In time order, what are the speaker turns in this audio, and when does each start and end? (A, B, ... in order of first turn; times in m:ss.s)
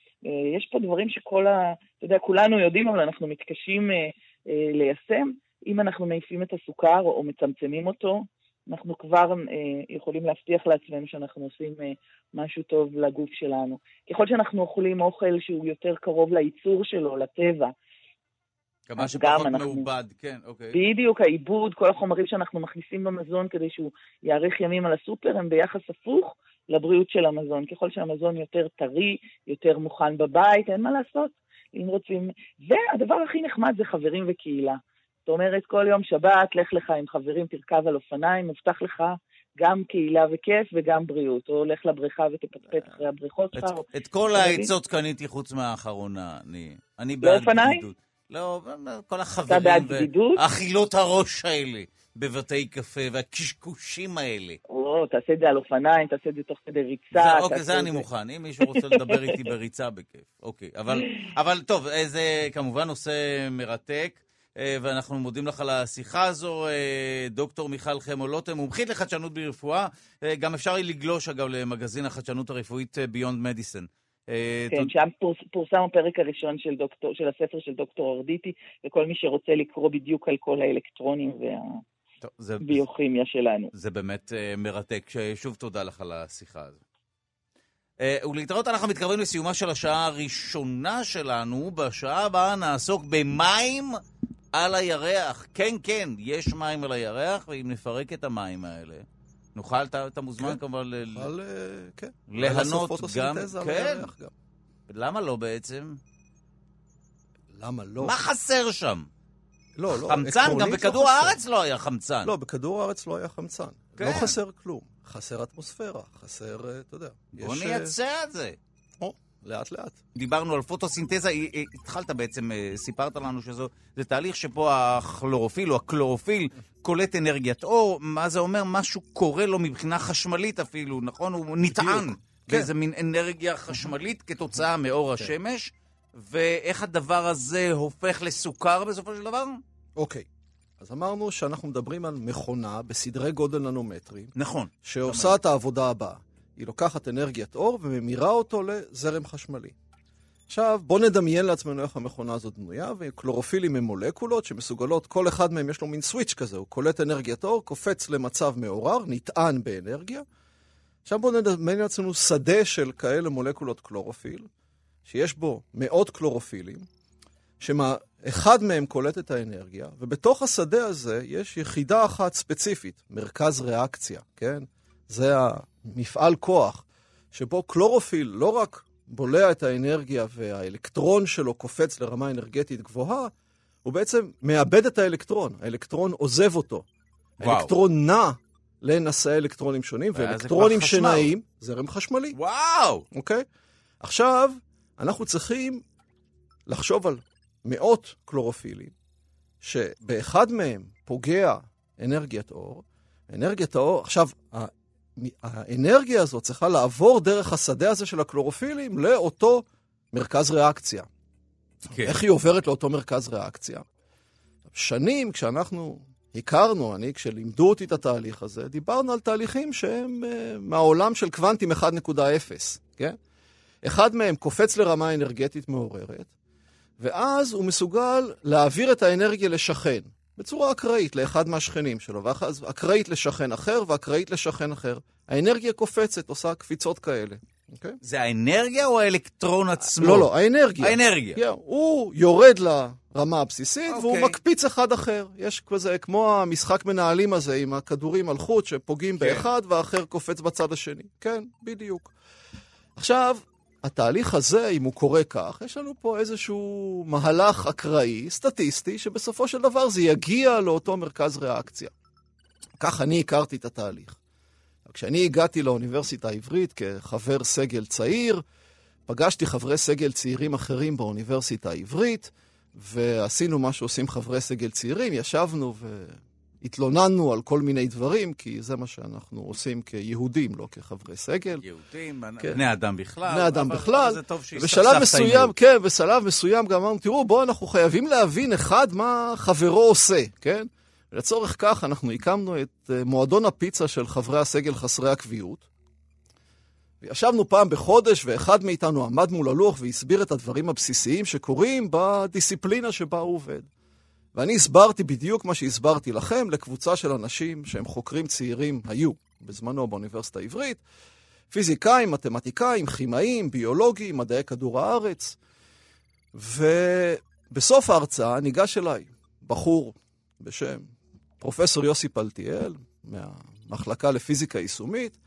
0:00.3-0:17.7 A
0:18.9-0:20.8 B
0:19.0-0:19.9 A
0:20.7-0:43.8 A
0:43.5-0:54.6 B
0:44.4-0:44.7 A
0:47.2-0:47.8 A
0:49.5-0:50.4 A
0:54.7-0:58.0 A
0:57.1-1:14.9 B
0:58.6-0:59.3 A
1:14.7-1:21.8 A
1:22.2-1:22.8 B
1:22.6-1:23.7 A
1:23.7-1:26.8 B
1:28.0-1:34.0 B
1:34.5-1:41.3 B
1:40.4-1:44.3 C
1:42.3-1:44.1 B
1:44.9-1:46.0 B
1:47.5-1:48.1 C
1:48.0-1:49.1 B
1:49.8-1:51.4 C
1:49.9-1:52.3 B
1:52.2-1:57.9 C
1:54.0-1:54.3 B
1:57.4-1:58.6 B
1:59.0-2:00.0 C
2:00.1-2:19.6 B
2:11.7-2:12.7 C
2:20.0-2:20.2 C
2:20.8-2:24.3 C
2:24.3-2:25.4 B
2:24.8-2:29.7 C
2:30.5-2:40.2 C
2:41.0-2:44.5 C
2:45.0-2:46.9 C
2:47.6-3:03.3 C
3:03.8-3:06.8 C
3:07.4-3:12.4 C
3:07.4-3:07.7 B
3:10.1-3:11.3 B
3:12.3-3:13.0 B
3:13.1-3:13.4 C
3:14.0-3:15.8 C
3:16.7-3:18.9 C
3:19.6-3:31.1 C
3:31.9-3:32.2 B
3:32.0-3:33.8 C
3:34.7-3:43.2 C
3:43.8-3:46.3 C
3:47.0-3:58.0 C
3:58.0-4:01.4 B
3:59.8-4:12.1 C
4:03.9-4:04.4 B
4:09.2-4:09.4 B
4:13.0-4:21.9 C
4:22.8-4:24.2 C
4:24.8-4:28.4 C
4:29.1-4:41.6 C
4:41.6-4:45.5 B
4:43.3-4:55.7 C
4:57.0-5:03.7 C
5:04.3-5:10.8 C
5:11.5-5:15.4 C
5:16.3-5:25.2 C